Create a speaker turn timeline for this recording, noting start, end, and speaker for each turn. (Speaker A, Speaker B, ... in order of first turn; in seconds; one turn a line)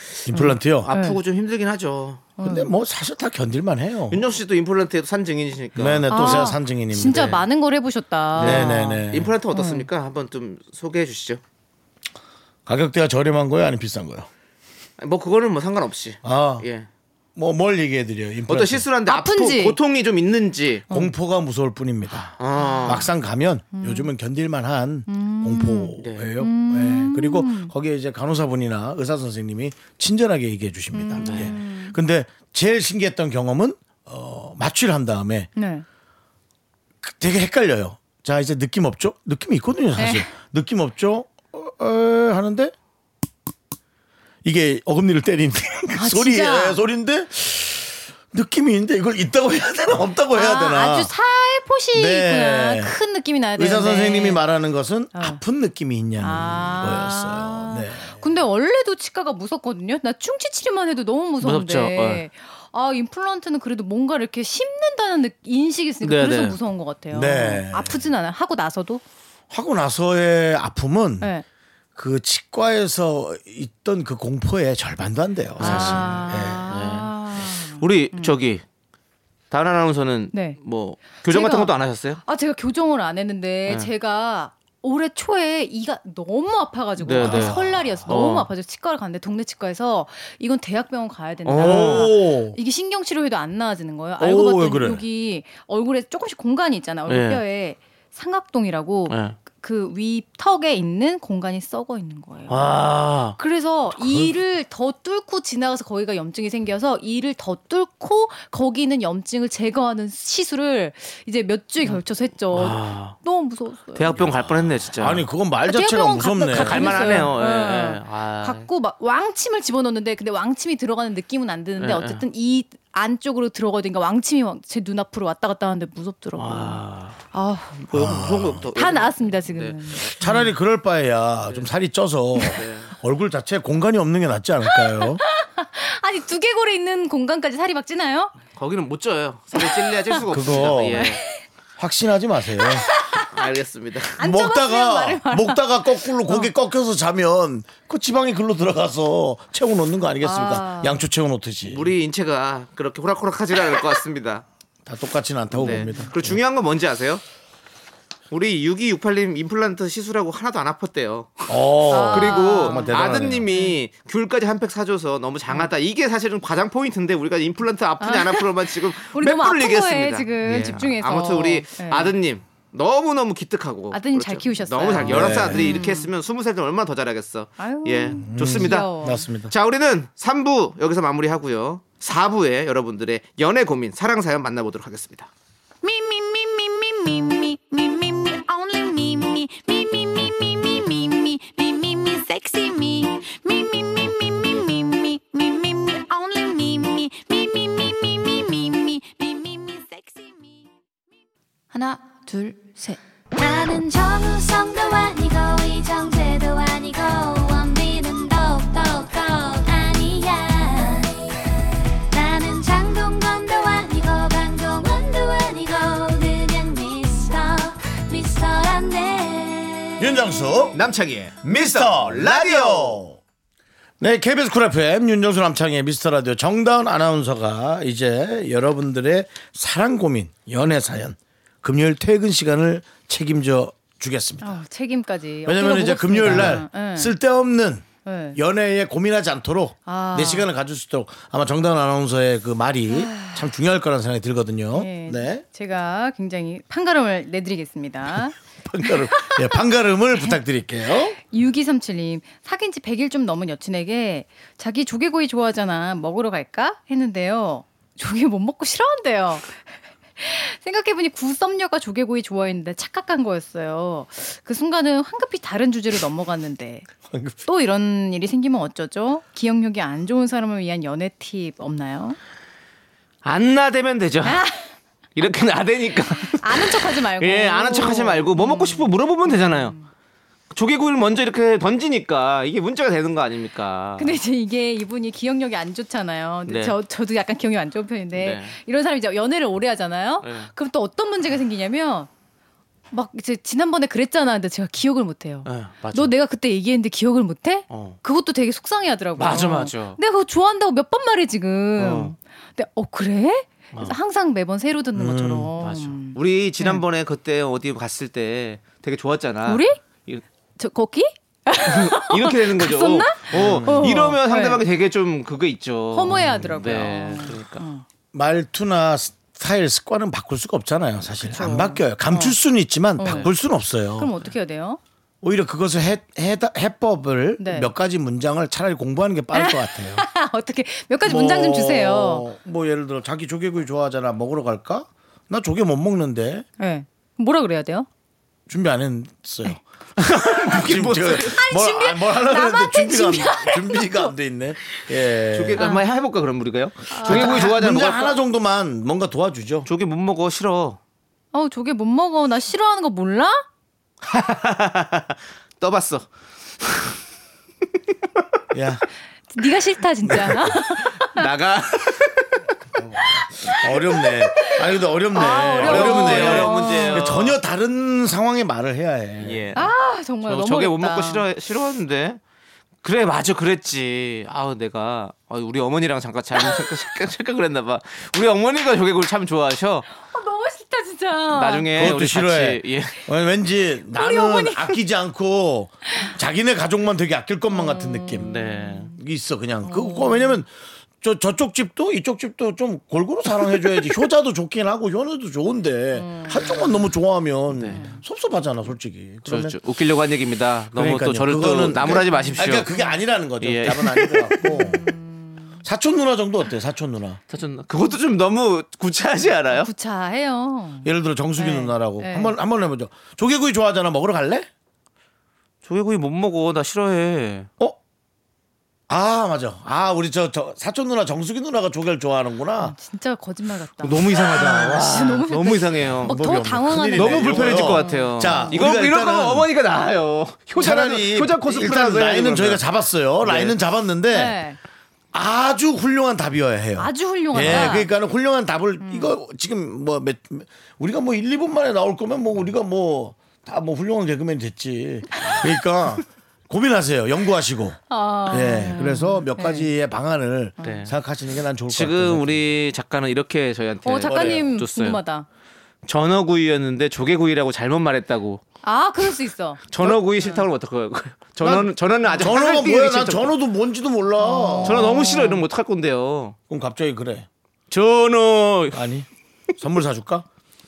Speaker A: 0.3-0.9
Speaker B: 0.3-1.2
Speaker C: 0.8-2.3
Speaker B: 2.4-2.7
Speaker A: 2.4-4.2
Speaker C: 4.1-6.5
Speaker A: 5.8-7.4
Speaker B: 6.1-9.9
Speaker C: 8.3-11.4
Speaker A: 8.4-9.3
Speaker A: 12.7-14.3
Speaker C: 15.0-16.9
Speaker A: 16.2-16.6
Speaker A: 17.3-18.9
Speaker C: 18.5-20.9
Speaker B: 19.1-19.8
Speaker A: 20.9-35.5
Speaker C: 22.4-23.1
Speaker B: 22.6-23.1
Speaker B: 23.7-24.1
Speaker B: 25.1-27.7
Speaker C: 26.0-26.3
Speaker B: 30.9-32.0
Speaker C: 31.2-31.6
Speaker B: 35.5-35.8
Speaker A: 37.0-42.7
Speaker B: 40.0-40.3
Speaker A: 44.4-51.1
Speaker B: 45.9-46.8
Speaker B: 50.3-54.4
Speaker A: 51.9-52.9
Speaker A: 53.6-58.2
Speaker B: 55.1-55.4
Speaker B: 56.2-69.0
Speaker C: 61.4-62.2
Speaker C: 66.0-66.6
Speaker A: 67.1-68.0
Speaker A: 69.5-71.3
Speaker A: 72.0-76.7
Speaker B: 75.6-78.3
Speaker C: 75.6-78.6
Speaker C: 79.5-82.2
Speaker B: 80.3-80.6
Speaker B: 81.2-81.7
Speaker B: 82.2-102.8
Speaker C: 87.0-88.5
Speaker A: 87.2-88.1
Speaker C: 91.4-92.2
Speaker A: 91.6-92.6
Speaker A: 94.2-95.0
Speaker C: 97.1-97.4
Speaker C: 99.1-99.4
Speaker C: 102.5-103.4
Speaker B: 103.4-114.2
Speaker A: 104.0-104.3
Speaker C: 112.5-113.2
Speaker C: 113.9-115.3
Speaker A: 115.0-117.1
Speaker B: 115.7-127.8
Speaker C: 116.5-118.7
Speaker C: 121.8-122.2
Speaker C: 126.3-127.2
Speaker C: 127.7-130.5
Speaker A: 127.9-128.6
Speaker B: 128.7-130.4
Speaker A: 130.2-135.2
Speaker C: 132.4-132.9
Speaker B: 134.7-138.3
Speaker C: 138.5-141.2
Speaker B: 139.5-140.2
Speaker A: 140.3-141.1
Speaker B: 140.9-141.4
Speaker A: 141.8-142.9
Speaker B: 142.6-143.4
Speaker C: 143.3-144.2
Speaker B: 144.2-146.5
Speaker A: 144.2-151.9
Speaker B: 150.2-151.0
Speaker C: 151.7-154.4
Speaker A: 154.8-156.4
Speaker C: 155.5-157.2
Speaker B: 155.6-156.1
Speaker C: 158.3-178.9
Speaker A: 161.5-163.5
Speaker B: 161.9-163.8
Speaker B: 168.0-172.1
Speaker B: 173.9-176.1
Speaker A: 175.0-175.7
Speaker B: 177.6-179.2
Speaker A: 178.2-179.5
Speaker C: 179.5-185.3
Speaker D: 185.8-200.7
Speaker D: 201.7-203.0
Speaker E: 203.3-211.6
Speaker E: 212.1-220.1
Speaker A: 220.0-220.8
Speaker C: 220.7-223.0
Speaker A: 221.4-223.2
Speaker A: 224.0-234.6
Speaker B: 234.4-237.1
Speaker A: 235.4-245.4
Speaker C: 236.2-236.6
Speaker B: 238.0-238.4
Speaker B: 239.8-240.5
Speaker B: 242.9-243.5
Speaker B: 244.7-249.6
Speaker A: 248.1-251.2
Speaker B: 251.1-259.6
Speaker B: 260.2-266.9
Speaker A: 267.1-267.4
Speaker B: 267.4-272.2
Speaker C: 273.2-274.4
Speaker B: 274.2-274.7
Speaker C: 275.1-279.8
Speaker B: 276.2-279.9
Speaker C: 280.5-284.2
Speaker B: 284.0-292.1
Speaker C: 286.4-286.8
Speaker C: 288.1-288.5
Speaker C: 290.2-290.5
Speaker B: 292.9-306.8
Speaker C: 295.4-296.1
Speaker C: 297.7-298.0
Speaker C: 299.2-300.0
Speaker C: 301.8-302.1
Speaker A: 304.9-305.5
Speaker C: 305.6-310.2
Speaker B: 309.4-309.8
Speaker B: 310.6-314.6
Speaker C: 311.6-317.6
Speaker A: 313.3-313.9
Speaker B: 315.9-317.8
Speaker A: 316.1-316.6
Speaker A: 318.1-324.1
Speaker B: 321.2-322.4
Speaker B: 323.0-323.3
Speaker C: 323.0-323.3
Speaker B: 324.0-324.8
Speaker A: 325.2-330.1
Speaker B: 327.4-327.7
Speaker B: 329.3-332.2
Speaker A: 331.0-336.4
Speaker B: 336.6-337.9
Speaker A: 338.5-345.6
Speaker C: 340.0-341.4
Speaker B: 341.1-344.1
Speaker C: 345.3-348.2
Speaker B: 345.6-345.8
Speaker B: 346.9-347.5
Speaker A: 347.0-349.7
Speaker C: 349.6-350.8
Speaker B: 351.3-353.4
Speaker C: 354.0-356.1
Speaker C: 356.6-356.9
Speaker A: 358.5-358.8
Speaker B: 359.3-361.3
Speaker A: 360.0-360.5
Speaker C: 360.9-362.5
Speaker A: 362.8-369.5
Speaker B: 363.5-364.6
Speaker B: 365.1-367.0
Speaker C: 365.2-367.4
Speaker C: 369.2-369.7
Speaker B: 369.5-371.2
Speaker C: 370.2-372.2
Speaker C: 372.8-379.9
Speaker B: 380.0-381.9
Speaker C: 381.3-382.9
Speaker A: 381.7-388.3
Speaker B: 383.9-384.8
Speaker B: 387.5-388.9
Speaker C: 388.2-388.9
Speaker A: 388.9-390.5
Speaker B: 389.6-390.4
Speaker A: 391.0-399.6
Speaker B: 395.9-396.7
Speaker C: 397.5-397.9
Speaker B: 397.7-398.0
Speaker C: 399.2-402.7
Speaker A: 400.7-404.9
Speaker B: 402.1-402.9
Speaker C: 403.4-404.4
Speaker B: 404.4-405.6
Speaker A: 405.6-407.2
Speaker C: 407.3-409.7
Speaker B: 409.5-412.3
Speaker A: 410.8-414.5
Speaker C: 415.6-417.5
Speaker A: 418.9-422.7
Speaker B: 422.6-428.5
Speaker C: 423.8-432.6
Speaker A: 426.0-429.5
Speaker A: 430.6-434.4
Speaker C: 433.2-433.6
Speaker B: 434.1-434.6
Speaker A: 435.1-452.5
Speaker B: 436.8-437.9
Speaker C: 437.4-437.8
Speaker B: 438.8-439.1
Speaker B: 445.1-445.4
Speaker B: 447.9-449.7
Speaker C: 450.6-450.9
Speaker C: 451.7-455.0
Speaker B: 453.8-455.2
Speaker A: 454.0-454.4
Speaker C: 455.9-458.4
Speaker B: 458.6-460.5
Speaker C: 459.7-463.2
Speaker B: 461.4-463.2
Speaker A: 462.2-464.9
Speaker B: 464.2-465.4
Speaker C: 464.6-466.4
Speaker A: 466.5-467.3
Speaker C: 467.7-468.8
Speaker A: 468.7-469.1
Speaker A: 469.6-470.2